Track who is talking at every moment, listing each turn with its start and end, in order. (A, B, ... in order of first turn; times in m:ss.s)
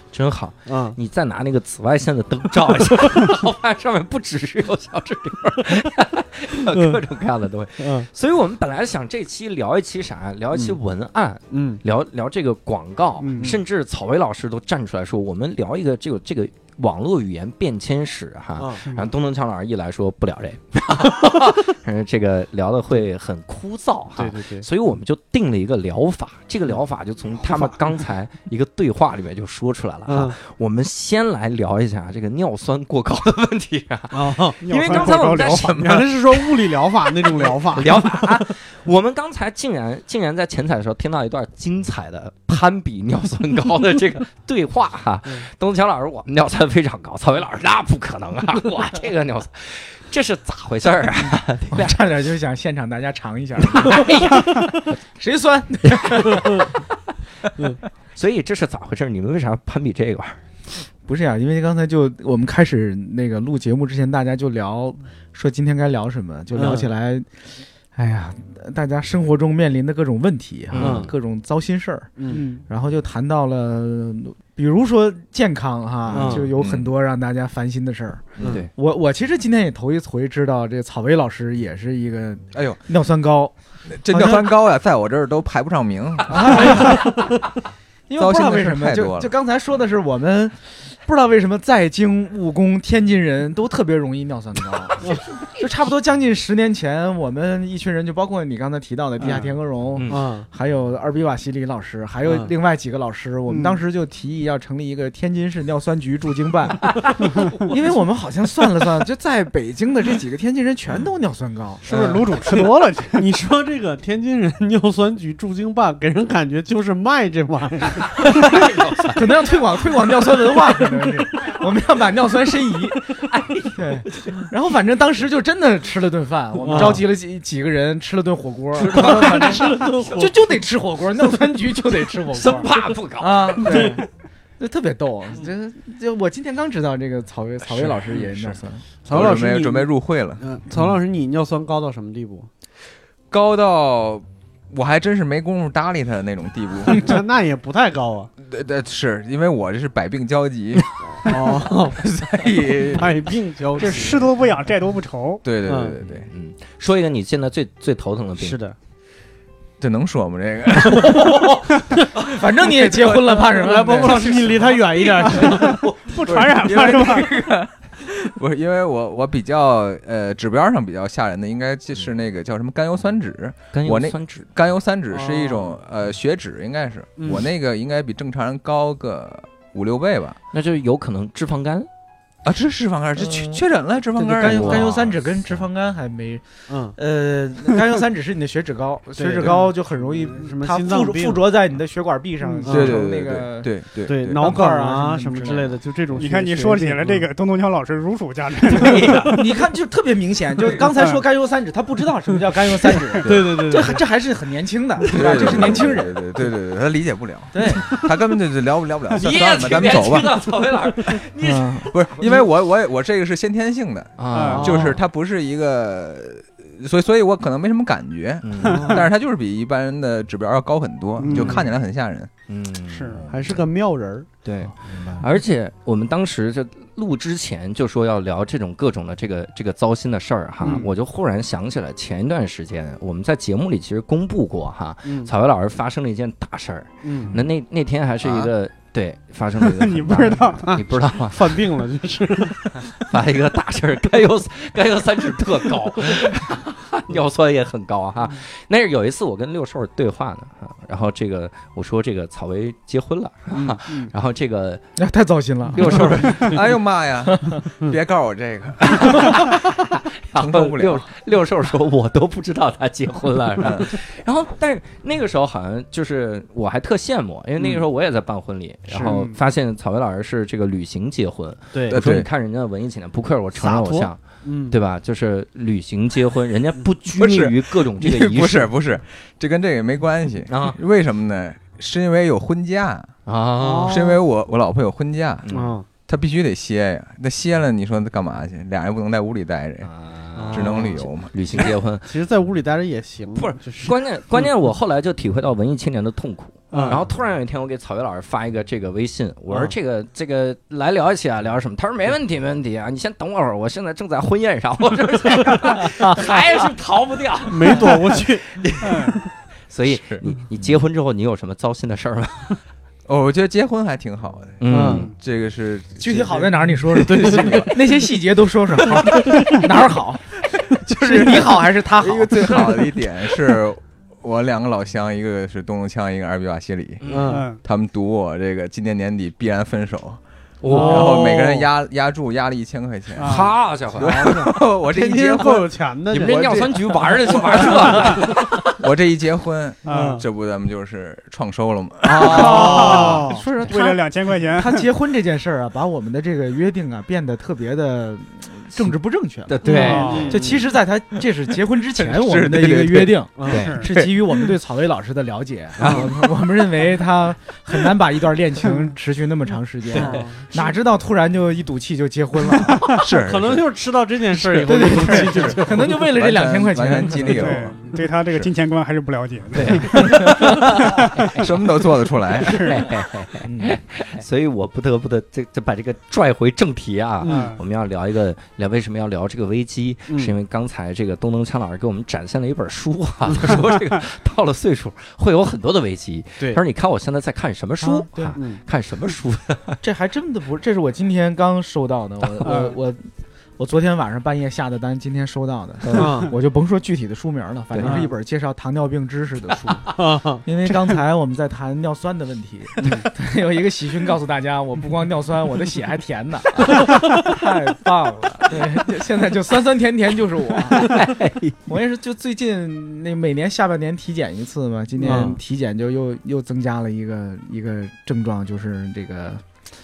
0:00.1-0:36.1 A
0:00.6-0:01.0 B
0:06.7-0:07.0 B
0:07.8-0:08.1 B
0:11.5-0:11.8 B
0:13.2-0:13.6 C
0:18.6-0:18.8 B
0:18.9-0:19.1 C
0:24.2-0:24.7 B
0:27.4-0:27.7 B
0:30.1-0:30.3 B
0:34.1-0:38.4 B
0:34.6-0:35.8 C
0:35.8-0:36.1 D
0:37.3-0:51.9 A
0:51.6-0:56.7 E
0:53.7-0:54.6 A
0:56.3-0:56.6 B
0:58.2-1:00.4 A
1:01.0-1:24.6 E
1:06.5-1:06.9 B
1:10.7-1:11.1 A
1:10.8-1:11.1 B
1:12.2-1:12.4 B
1:12.3-1:12.6 C
1:16.1-1:16.9 D
1:16.1-1:16.5 B
1:18.4-1:18.6 D
1:18.4-1:18.7 A
1:22.5-1:22.8 D
1:23.9-1:27.0 D
1:26.3-1:27.2 E
1:26.7-1:27.4 B
1:28.1-1:52.2 E
1:28.2-1:29.3 D
1:39.9-1:40.3 A
1:40.1-1:40.5 B
1:42.2-1:42.5 B
1:51.8-1:53.2 C
1:52.3-1:58.6 B
1:58.1-1:59.2 A
1:59.1-2:14.0 E
2:03.3-2:04.5 A
2:06.6-2:07.0 B
2:08.8-2:10.3 A
2:08.9-2:10.5 B
2:12.3-2:13.9 A
2:14.6-2:18.8 E
2:19.0-2:22.5 B
2:19.1-2:20.8 D
2:23.3-2:27.2 D
2:26.9-2:28.3 B
2:28.4-2:33.3 D
2:31.2-2:32.0 B
2:32.8-2:34.3 B
2:33.8-2:35.4 C
2:35.4-2:36.3 D
2:35.6-2:36.0 B
2:36.0-2:38.6 A
2:38.4-2:38.7 B
2:39.8-2:42.0 D
2:40.8-2:44.4 E
2:42.7-2:43.4 D
2:43.5-2:45.8 B
2:44.0-2:47.5 A
2:45.5-2:47.3 C
2:46.3-3:00.4 D
2:53.7-2:54.5 A
2:55.1-2:55.8 B
2:57.2-2:57.5 B
3:00.5-3:01.9 A
3:02.4-3:05.2 D
3:03.2-3:15.8 E
3:04.4-3:05.1 A
3:06.7-3:07.0 B
3:09.2-3:11.5 B
3:12.6-3:13.0 B
3:12.7-3:14.6 D
3:14.0-3:17.3 B
3:16.2-3:19.4 C
3:18.8-3:19.3 A
3:18.8-3:19.2 B
3:19.0-3:26.2 E
3:21.0-3:21.2 C
3:23.2-3:24.0 B
3:23.2-3:23.6 D
3:25.1-3:30.3 D
3:27.5-3:28.0 E
3:29.1-3:32.4 A
3:31.4-3:32.3 E
3:31.9-3:42.3 D
3:34.2-3:34.9 A
3:34.3-3:34.7 C
3:34.5-3:35.0 B
3:38.4-3:39.0 A
3:38.8-3:39.0 B
3:41.2-3:41.7 C
3:42.5-3:43.6 A
3:42.9-3:43.2 C
3:43.3-3:43.6 D
3:43.3-3:44.3 B
3:44.4-4:01.7 A
3:44.9-3:45.2 E
3:50.6-3:50.9 C
3:55.0-3:55.3 B
3:57.0-3:57.3 B
3:58.2-3:58.5 D
3:59.6-4:00.8 C
4:00.7-4:02.9 B
4:02.7-4:14.8 A
4:13.5-4:14.1 B
4:15.0-4:16.5 E
4:15.7-4:16.6 A
4:16.2-4:19.6 D
4:17.2-4:17.6 E
4:19.3-4:38.7 A
4:20.3-4:21.1 D
4:23.6-4:24.0 D
4:27.6-4:27.8 B
4:28.9-4:29.1 B
4:29.0-4:29.4 C
4:31.7-4:32.0 B
4:31.9-4:32.3 D
4:33.5-4:34.8 B
4:37.1-4:43.1 D
4:40.5-4:40.8 A
4:43.2-4:44.0 A
4:43.6-4:44.2 B
4:43.8-4:45.5 D
4:45.4-4:45.7 A
4:45.5-4:45.8 B
4:46.1-4:49.9 D
4:49.8-4:52.1 A
4:50.4-4:54.5 B
4:50.5-4:51.3 D
4:53.4-5:12.6 A
4:56.7-4:57.0 B
4:59.5-4:59.7 B
5:07.5-5:08.5 B
5:08.8-5:09.2 C
5:09.9-5:10.2 D
5:13.1-5:17.8 D
5:14.6-5:15.1 A
5:14.7-5:15.1 B
5:16.0-5:22.9 E
5:16.9-5:17.9 B
5:18.9-5:19.7 B
5:20.8-5:21.6 B
5:22.0-5:27.1 D
5:27.0-5:27.4 A
5:27.1-5:27.5 B
5:27.3-5:27.6 C
5:27.6-5:38.3 D
5:30.6-5:31.4 A
5:30.7-5:31.7 B
5:33.2-5:33.5 C
5:33.2-5:34.3 A
5:34.0-5:38.1 B
5:36.1-5:38.7 A
5:38.8-5:43.0 D
5:39.8-5:40.2 C
5:39.9-5:40.2 B
5:42.1-6:03.0 E
5:42.2-5:42.9 A
5:42.2-5:43.4 B
5:42.3-5:44.9 C
5:49.4-5:50.6 A
5:49.6-5:50.4 C
5:49.7-5:50.6 B
5:52.0-5:53.2 D
5:53.4-5:53.7 B
5:53.5-5:54.1 A
5:53.5-5:53.9 C
5:55.8-5:56.2 A
5:59.9-6:00.5 B
5:59.9-6:00.3 A
6:03.0-6:03.6 D
6:03.0-6:06.1 B
6:04.6-6:07.7 E
6:05.0-6:05.4 C
6:05.4-6:08.5 D
6:07.3-6:11.4 C
6:09.5-6:11.5 A
6:10.0-6:10.5 D
6:11.4-6:12.7 D
6:12.4-6:29.8 A
6:12.5-6:12.8 C
6:13.4-6:13.8 E
6:17.2-6:17.6 B
6:17.2-6:17.6 C
6:20.1-6:20.3 B
6:27.8-6:28.4 E
6:28.3-6:28.6 B
6:29.8-6:51.2 E
6:32.2-6:32.6 A
6:32.4-6:32.7 C
6:35.8-6:36.1 A
6:35.9-6:36.3 B
6:37.7-6:38.0 A
6:37.8-6:38.1 B
6:39.9-6:40.4 B
6:50.7-6:51.6 A
6:51.7-6:59.4 E
6:55.0-6:55.4 B